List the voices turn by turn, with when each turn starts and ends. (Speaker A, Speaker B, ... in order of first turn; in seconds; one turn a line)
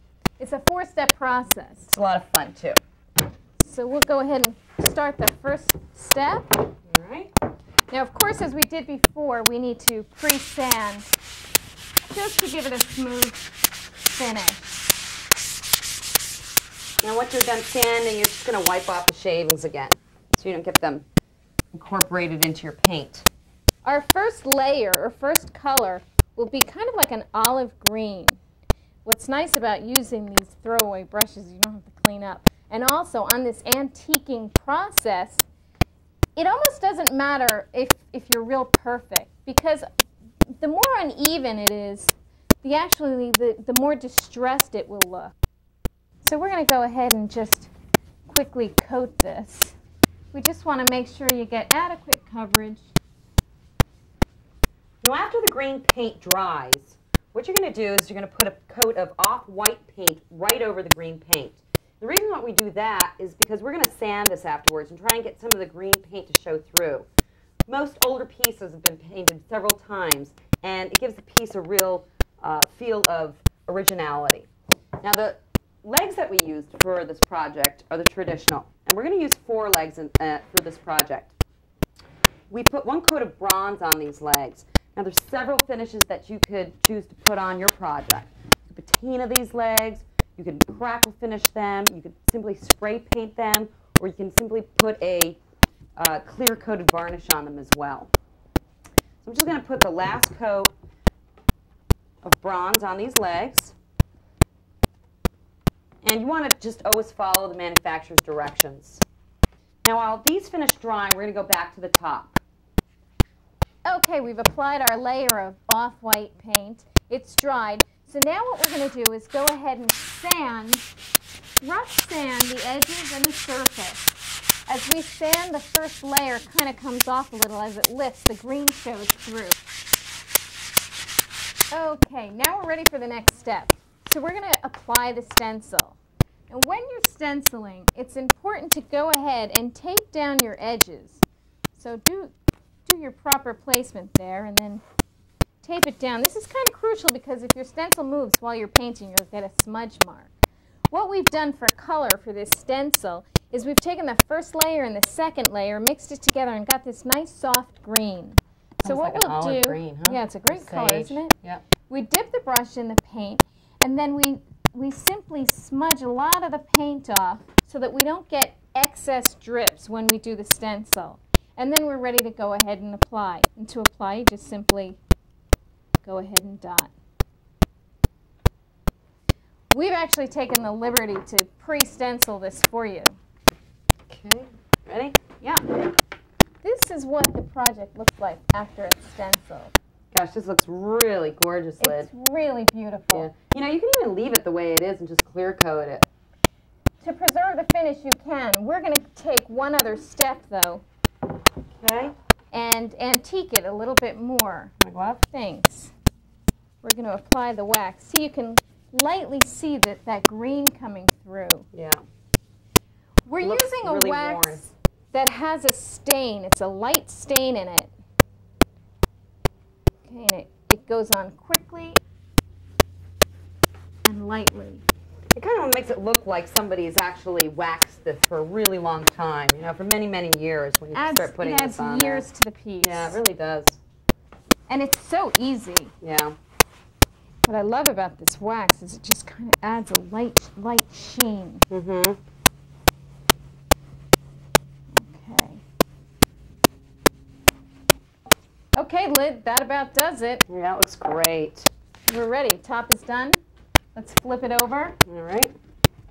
Speaker A: 0.4-1.9
Speaker B: 1.9-2.8
Speaker A: 3.6-6.7
Speaker B: 6.9-7.3
Speaker A: 7.9-11.1
Speaker A: 12.0-13.6
Speaker A: 14.1-14.8
Speaker B: 17.0-21.0
Speaker B: 21.7-23.2
Speaker A: 23.8-28.4
Speaker A: 29.0-35.5
Speaker A: 36.4-39.9
Speaker A: 40.6-45.3
Speaker A: 46.2-47.7
Speaker A: 48.3-49.8
Speaker A: 50.3-52.9
Speaker B: 55.0-67.0
Speaker B: 67.7-74.5
Speaker B: 75.0-81.3
Speaker B: 82.5-95.4
Speaker B: 96.0-98.1
Speaker B: 99.2-100.7
Speaker B: 102.2-103.8
Speaker B: 106.0-109.0
Speaker B: 109.8-112.4
Speaker A: 113.8-120.8
Speaker A: 121.6-124.2
Speaker A: 124.7-129.6
Speaker A: 131.7-136.0
Speaker A: 136.5-141.2
Speaker A: 141.7-142.3
Speaker A: 142.8-144.8
Speaker A: 145.6-150.3
Speaker A: 150.9-161.3
Speaker B: 158.8-161.6
Speaker A: 161.9-175.0
Speaker A: 176.0-176.9
Speaker A: 179.7-183.2
Speaker B: 184.1-185.2
Speaker A: 185.4-185.8
Speaker A: 186.6-189.7
Speaker B: 190.1-192.1
Speaker A: 191.8-193.3
Speaker B: 193.1-196.1
Speaker A: 197.0-200.8
Speaker B: 201.8-202.1
Speaker A: 202.5-204.7
Speaker B: 204.8-205.2
Speaker A: 205.3-205.9
Speaker A: 206.8-211.7
Speaker B: 211.7-212.0
Speaker A: 213.2-217.9
Speaker B: 213.4-214.6
Speaker A: 220.0-222.0
Speaker A: 224.0-224.8
Speaker B: 225.3-232.3
Speaker A: 230.9-233.2
Speaker B: 232.8-233.8
Speaker A: 234.7-235.9
Speaker B: 236.0-236.3
Speaker A: 237.4-241.7
Speaker B: 241.7-242.2
Speaker A: 244.9-245.6
Speaker A: 248.7-250.4
Speaker B: 250.5-251.7
Speaker A: 252.1-253.4
Speaker A: 253.9-255.0
Speaker B: 255.1-255.5